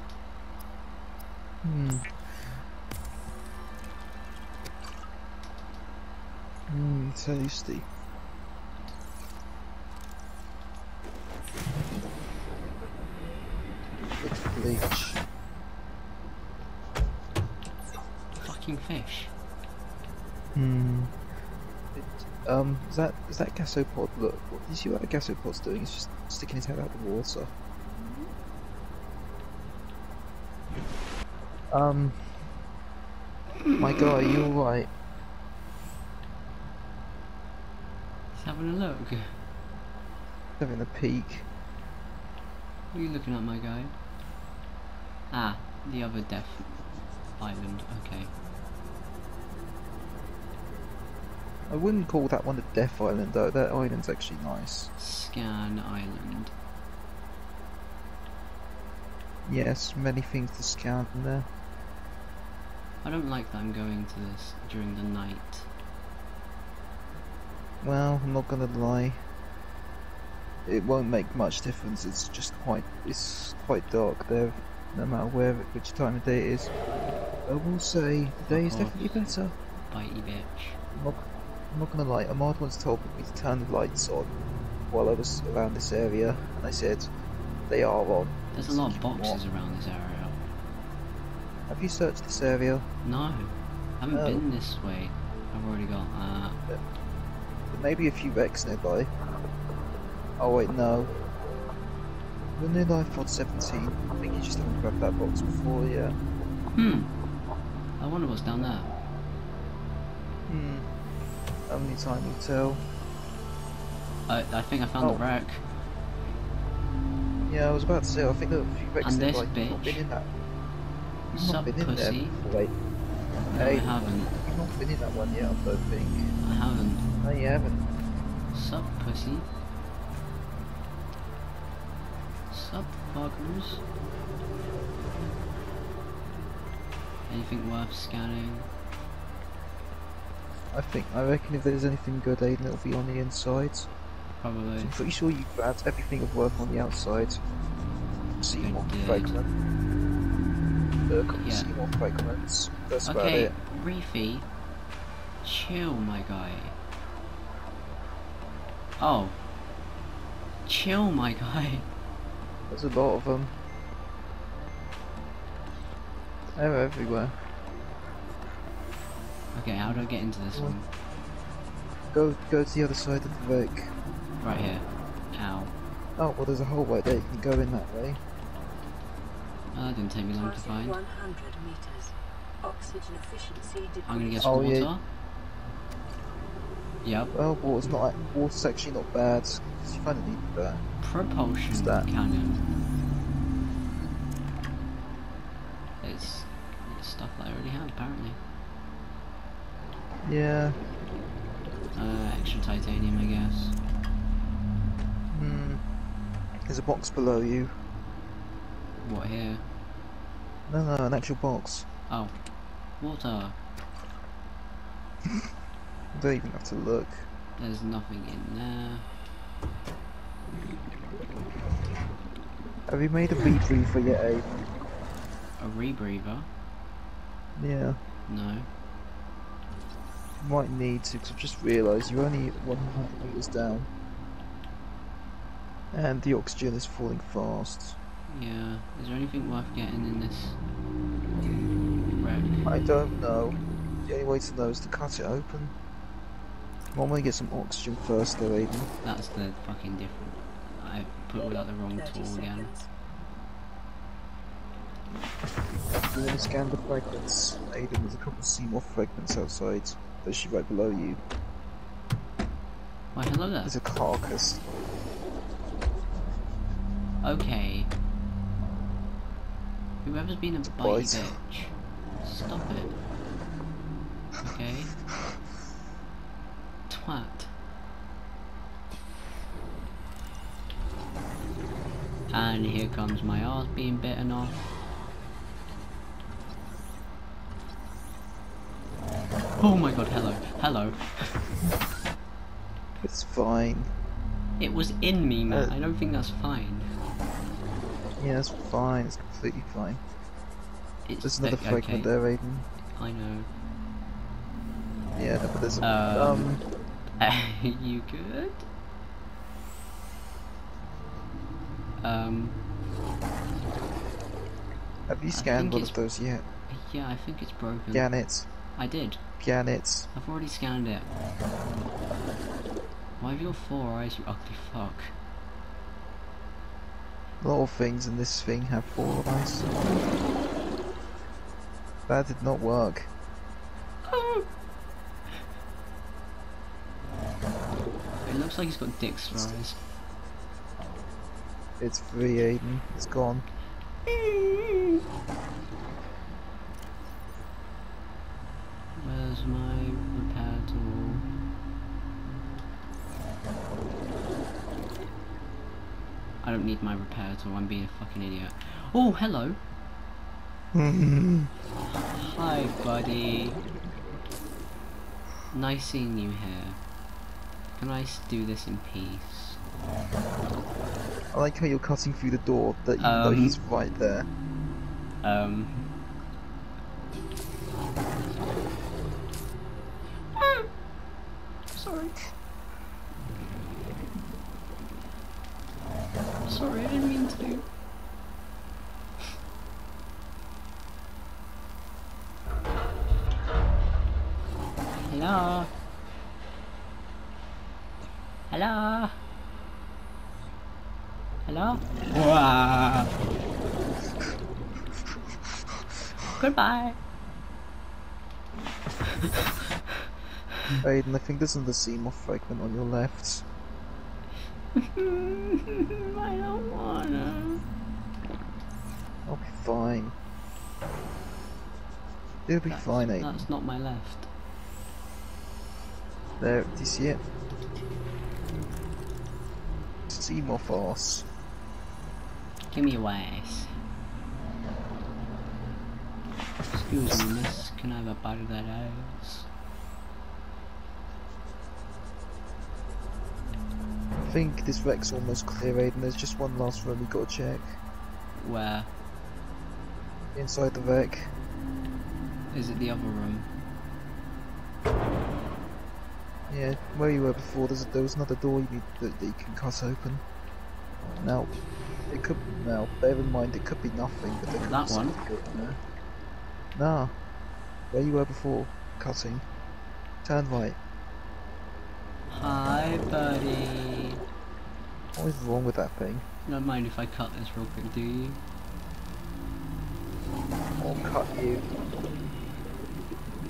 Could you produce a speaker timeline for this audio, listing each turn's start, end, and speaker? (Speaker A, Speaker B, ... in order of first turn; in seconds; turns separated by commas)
Speaker A: 1.6-2.1, Speaker A: 6.7-7.8, Speaker A: 14.2-15.2, Speaker B: 18.4-19.3, Speaker A: 20.5-21.1, Speaker A: 21.9-27.5, Speaker B: 28.0-28.3, Speaker A: 31.7-32.5, Speaker A: 33.8-34.9, Speaker B: 38.3-39.4, Speaker A: 40.6-41.5, Speaker B: 42.9-43.9, Speaker B: 45.3-46.9, Speaker B: 47.4-48.3, Speaker A: 51.7-54.9, Speaker B: 55.0-56.5, Speaker A: 59.5-61.5, Speaker B: 63.0-65.7, Speaker A: 67.8-69.2, Speaker A: 70.6-76.7, Speaker A: 77.4-79.5, Speaker B: 78.5-80.8, Speaker A: 80.9-84.3, Speaker A: 84.9-87.1, Speaker A: 87.7-89.4, Speaker B: 88.5-90.4, Speaker A: 91.7-92.9, Speaker B: 93.0-96.6, Speaker A: 94.1-94.4, Speaker A: 97.7-99.1, Speaker A: 100.4-101.1, Speaker A: 102.5-106.2, Speaker B: 106.8-107.1, Speaker B: 108.0-108.9, Speaker A: 110.5-110.9, Speaker A: 111.7-112.8, Speaker B: 114.3-115.6, Speaker A: 117.5-120.3, Speaker B: 119.0-120.0, Speaker A: 121.3-122.7, Speaker B: 121.3-122.4, Speaker B: 123.5-124.3, Speaker A: 123.5-126.3, Speaker B: 126.4-127.0, Speaker A: 127.2-127.9, Speaker B: 128.5-129.5, Speaker B: 132.5-133.8, Speaker B: 137.3-138.7, Speaker A: 140.7-143.9, Speaker B: 144.4-144.9, Speaker A: 144.8-147.4, Speaker A: 148.4-149.6, Speaker B: 148.5-149.4, Speaker A: 151.1-153.5, Speaker B: 151.3-151.7, Speaker B: 153.0-154.5, Speaker B: 155.4-156.8, Speaker B: 159.0-159.4, Speaker B: 160.7-161.9, Speaker A: 162.7-163.5, Speaker A: 166.5-167.4, Speaker B: 169.5-170.9, Speaker A: 170.5-170.8, Speaker A: 172.1-173.9, Speaker B: 174.4-175.7, Speaker A: 176.2-178.2, Speaker B: 179.7-181.0, Speaker C: 180.3-184.7, Speaker B: 184.1-185.0, Speaker A: 184.4-184.9, Speaker B: 187.0-187.3, Speaker A: 187.3-190.8, Speaker B: 191.0-192.7, Speaker A: 191.7-192.1, Speaker B: 196.0-198.4, Speaker A: 200.2-200.8, Speaker B: 201.9-203.8, Speaker A: 205.3-205.8, Speaker A: 206.7-207.7, Speaker B: 209.0-209.6, Speaker A: 210.7-211.9, Speaker B: 212.1-212.3, Speaker B: 213.0-213.6, Speaker A: 216.1-217.3, Speaker B: 217.6-219.1, Speaker A: 222.9-224.6, Speaker B: 225.6-226.5, Speaker A: 227.6-228.0, Speaker B: 228.3-228.7, Speaker A: 230.4-233.9, Speaker A: 235.9-238.0, Speaker B: 238.3-240.6, Speaker B: 242.2-242.7, Speaker A: 242.6-245.7, Speaker A: 246.9-248.9, Speaker B: 249.0-252.7, Speaker C: 251.4-252.9, Speaker A: 256.1-261.2, Speaker B: 263.1-263.8, Speaker A: 263.6-264.6, Speaker B: 267.2-267.9, Speaker B: 270.0-272.9, Speaker A: 270.6-271.4, Speaker B: 274.4-274.9, Speaker B: 276.9-277.5, Speaker B: 282.3-284.7, Speaker B: 289.6-291.4, Speaker A: 293.0-293.9, Speaker B: 294.6-296.9, Speaker A: 295.5-295.7, Speaker A: 298.2-300.0, Speaker B: 301.1-302.1, Speaker A: 301.2-302.7, Speaker B: 302.9-303.5, Speaker A: 305.1-306.6, Speaker B: 305.8-306.5, Speaker B: 307.2-308.6, Speaker B: 312.0-312.6, Speaker A: 315.1-316.4, Speaker B: 315.3-316.0, Speaker B: 316.7-318.1, Speaker A: 317.9-318.5, Speaker B: 318.8-319.2, Speaker A: 319.4-320.1, Speaker B: 320.1-321.1, Speaker B: 323.2-325.1, Speaker A: 327.4-330.1, Speaker A: 332.1-333.1, Speaker B: 334.0-334.5, Speaker B: 338.2-339.8, Speaker A: 341.8-343.4, Speaker B: 344.1-345.0, Speaker B: 348.9-351.2, Speaker B: 356.4-359.6, Speaker A: 360.7-361.5, Speaker B: 361.8-363.6, Speaker B: 365.5-366.8, Speaker B: 367.8-369.6, Speaker A: 371.3-374.3, Speaker B: 373.0-373.6, Speaker B: 375.2-375.9, Speaker B: 380.3-380.7, Speaker B: 381.7-382.1, Speaker B: 386.4-387.7, Speaker B: 395.0-395.7, Speaker B: 398.5-399.2, Speaker B: 401.4-403.1, Speaker B: 406.3-407.0, Speaker A: 410.8-413.4, Speaker B: 414.8-417.6, Speaker A: 419.2-420.1, Speaker A: 422.4-423.4, Speaker B: 422.7-424.3, Speaker A: 426.4-427.2, Speaker A: 430.1-431.3, Speaker B: 432.7-433.7, Speaker B: 436.7-439.5, Speaker A: 437.1-437.6, Speaker A: 444.2-447.8, Speaker B: 448.4-448.9, Speaker A: 450.3-451.3, Speaker B: 452.5-453.5, Speaker A: 456.5-460.2, Speaker A: 461.2-461.5, Speaker A: 462.1-465.8, Speaker B: 464.6-465.2, Speaker A: 466.7-467.1, Speaker A: 467.9-469.4, Speaker A: 470.2-470.8, Speaker B: 472.3-474.2, Speaker A: 475.1-476.2, Speaker B: 476.4-478.4, Speaker A: 480.8-481.7